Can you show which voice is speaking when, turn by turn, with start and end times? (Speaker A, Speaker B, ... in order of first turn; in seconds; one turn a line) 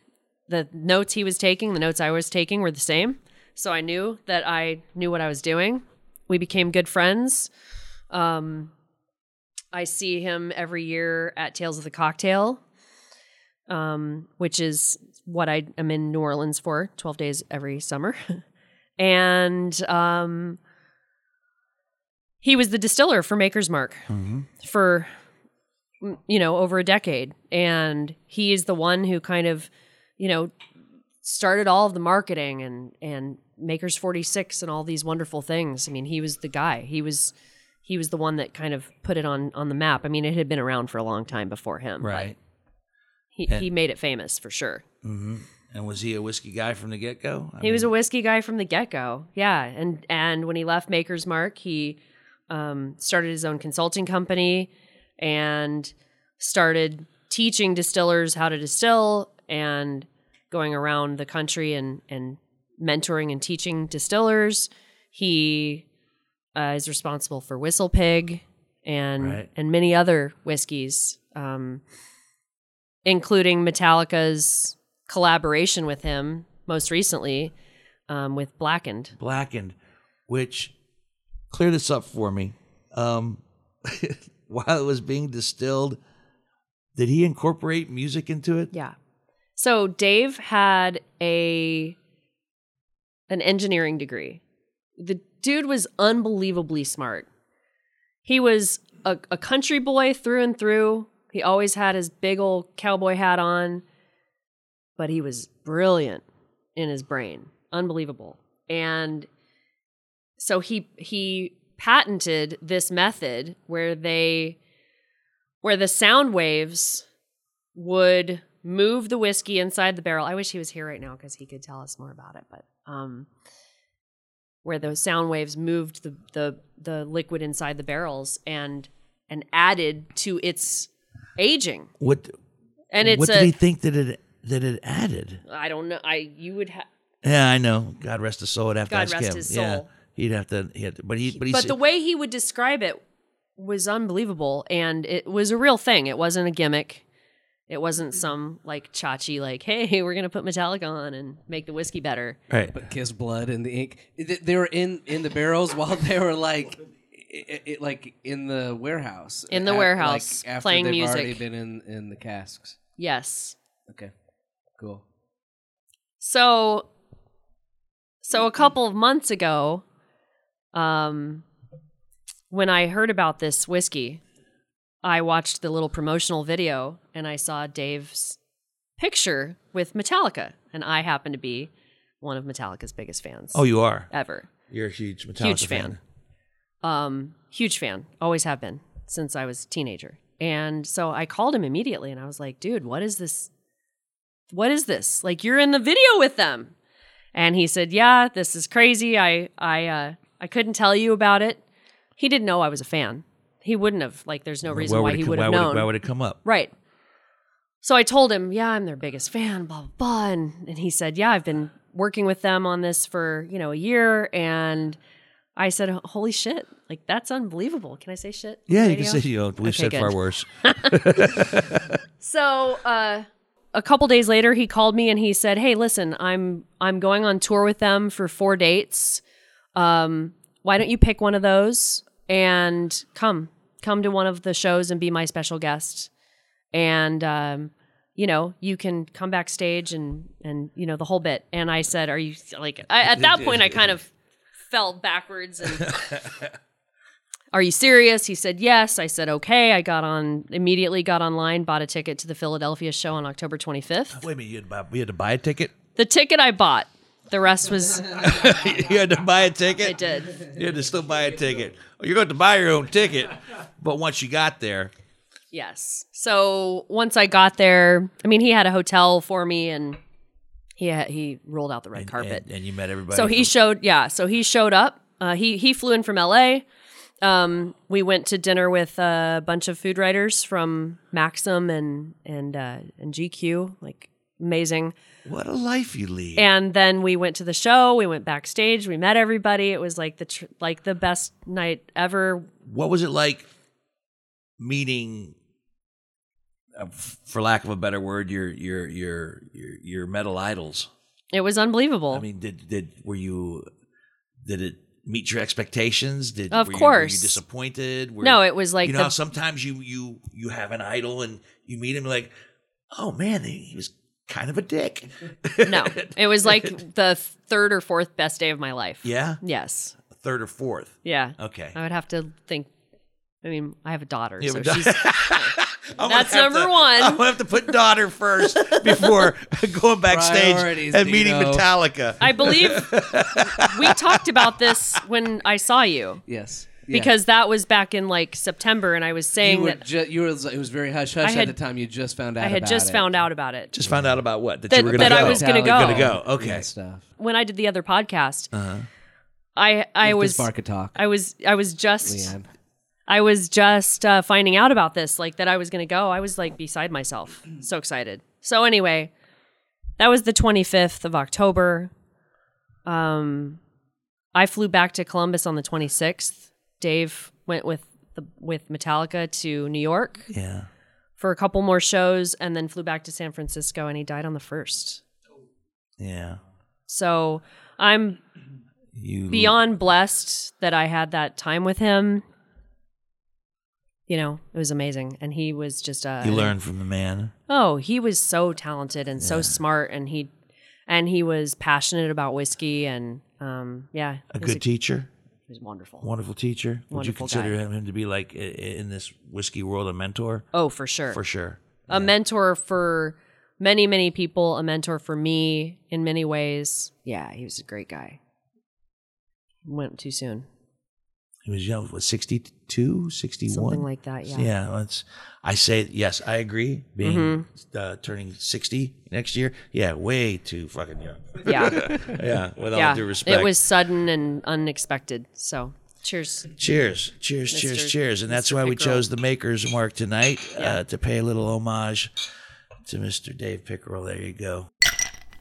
Speaker A: 0.5-7.5
Speaker A: 8.1-8.7
Speaker A: 9.7-12.6
Speaker A: 13.7-18.4
Speaker A: 19.0-20.6
Speaker A: 22.4-25.1
Speaker B: 24.1-24.5
Speaker A: 26.0-30.5
Speaker A: 31.2-37.3
Speaker A: 37.9-42.3
Speaker B: 42.0-42.4
Speaker A: 43.4-44.8
Speaker B: 45.0-47.9
Speaker A: 47.6-65.9
Speaker A: 66.5-71.8
Speaker B: 69.2-69.5
Speaker A: 73.0-77.5
Speaker A: 78.1-79.1
Speaker B: 79.2-79.8
Speaker B: 80.3-80.7
Speaker B: 81.5-86.0
Speaker B: 87.0-88.7
Speaker A: 89.6-92.0
Speaker A: 93.3-94.4
Speaker A: 95.0-97.3
Speaker A: 98.2-103.8
Speaker A: 105.0-106.2
Speaker A: 106.8-109.3
Speaker A: 110.4-114.6
Speaker A: 115.6-117.0
Speaker A: 117.8-123.3
Speaker A: 124.6-131.9
Speaker B: 132.0-132.3
Speaker A: 132.9-133.5
Speaker B: 133.0-135.4
Speaker A: 135.5-136.9
Speaker B: 137.2-141.8
Speaker A: 138.9-139.9
Speaker A: 141.4-143.0
Speaker A: 143.6-147.0
Speaker A: 147.7-152.4
Speaker B: 152.5-152.8
Speaker C: 152.7-162.8
Speaker A: 159.5-161.4
Speaker A: 163.0-163.6
Speaker A: 166.2-166.9
Speaker A: 168.2-169.8
Speaker A: 170.7-171.4
Speaker A: 172.5-174.2
Speaker A: 175.0-178.4
Speaker A: 179.0-181.7
Speaker A: 182.2-184.5
Speaker B: 183.5-184.1
Speaker B: 184.7-186.0
Speaker A: 185.4-186.0
Speaker A: 186.8-193.5
Speaker A: 194.5-196.7
Speaker A: 197.3-201.6
Speaker A: 202.2-205.9
Speaker B: 204.7-206.4
Speaker A: 206.4-206.7
Speaker A: 207.8-215.0
Speaker A: 215.6-221.4
Speaker B: 218.7-222.0
Speaker A: 222.2-229.2
Speaker A: 229.8-236.1
Speaker A: 236.7-244.1
Speaker B: 243.0-243.9
Speaker A: 244.7-246.0
Speaker B: 245.8-246.5
Speaker A: 247.5-254.3
Speaker B: 254.1-255.7
Speaker A: 256.0-258.5
Speaker B: 258.2-264.9
Speaker A: 259.8-260.5
Speaker A: 265.5-270.0
Speaker A: 270.8-272.4
Speaker B: 271.9-273.5
Speaker A: 273.1-276.6
Speaker A: 277.2-284.9
Speaker B: 285.3-286.5
Speaker A: 286.4-292.5
Speaker B: 292.6-293.5
Speaker B: 294.6-295.4
Speaker B: 296.8-300.9
Speaker A: 301.3-302.2
Speaker B: 302.1-303.7
Speaker B: 304.4-312.3
Speaker A: 306.5-307.4
Speaker A: 308.2-309.1
Speaker B: 312.9-316.8
Speaker A: 315.6-319.9
Speaker B: 319.0-319.4
Speaker B: 320.0-321.8
Speaker A: 321.0-322.7
Speaker A: 323.4-327.3
Speaker B: 324.4-335.0
Speaker A: 328.6-329.3
Speaker C: 330.1-331.7
Speaker A: 332.2-336.2
Speaker C: 336.3-337.1
Speaker A: 336.9-339.8
Speaker C: 339.4-343.2
Speaker A: 341.2-341.6
Speaker A: 342.4-343.7
Speaker B: 343.7-346.7
Speaker C: 343.9-344.2
Speaker A: 344.7-346.1
Speaker C: 344.8-347.1
Speaker A: 347.2-348.5
Speaker B: 348.5-348.9
Speaker A: 349.6-352.3
Speaker C: 350.0-351.0
Speaker C: 352.1-352.5
Speaker A: 353.1-359.1
Speaker A: 360.0-361.9
Speaker A: 362.9-363.6
Speaker A: 364.4-370.3
Speaker B: 370.3-370.7
Speaker A: 371.2-375.0
Speaker B: 376.0-376.4
Speaker A: 376.9-378.2
Speaker B: 378.9-379.6
Speaker A: 379.3-382.2
Speaker A: 384.1-386.6
Speaker B: 386.2-387.3
Speaker A: 387.5-390.3
Speaker B: 389.2-389.6
Speaker A: 390.9-394.6
Speaker B: 394.3-395.1
Speaker A: 395.5-396.1
Speaker B: 396.0-400.5
Speaker A: 396.9-397.6
Speaker A: 400.5-401.2
Speaker B: 401.1-402.1
Speaker A: 401.9-408.2
Speaker A: 409.6-410.5
Speaker B: 411.4-423.6
Speaker A: 413.5-414.5
Speaker A: 417.0-417.5
Speaker A: 421.4-421.9
Speaker A: 422.7-426.5
Speaker B: 426.6-432.2
Speaker A: 427.5-429.1
Speaker B: 432.9-434.7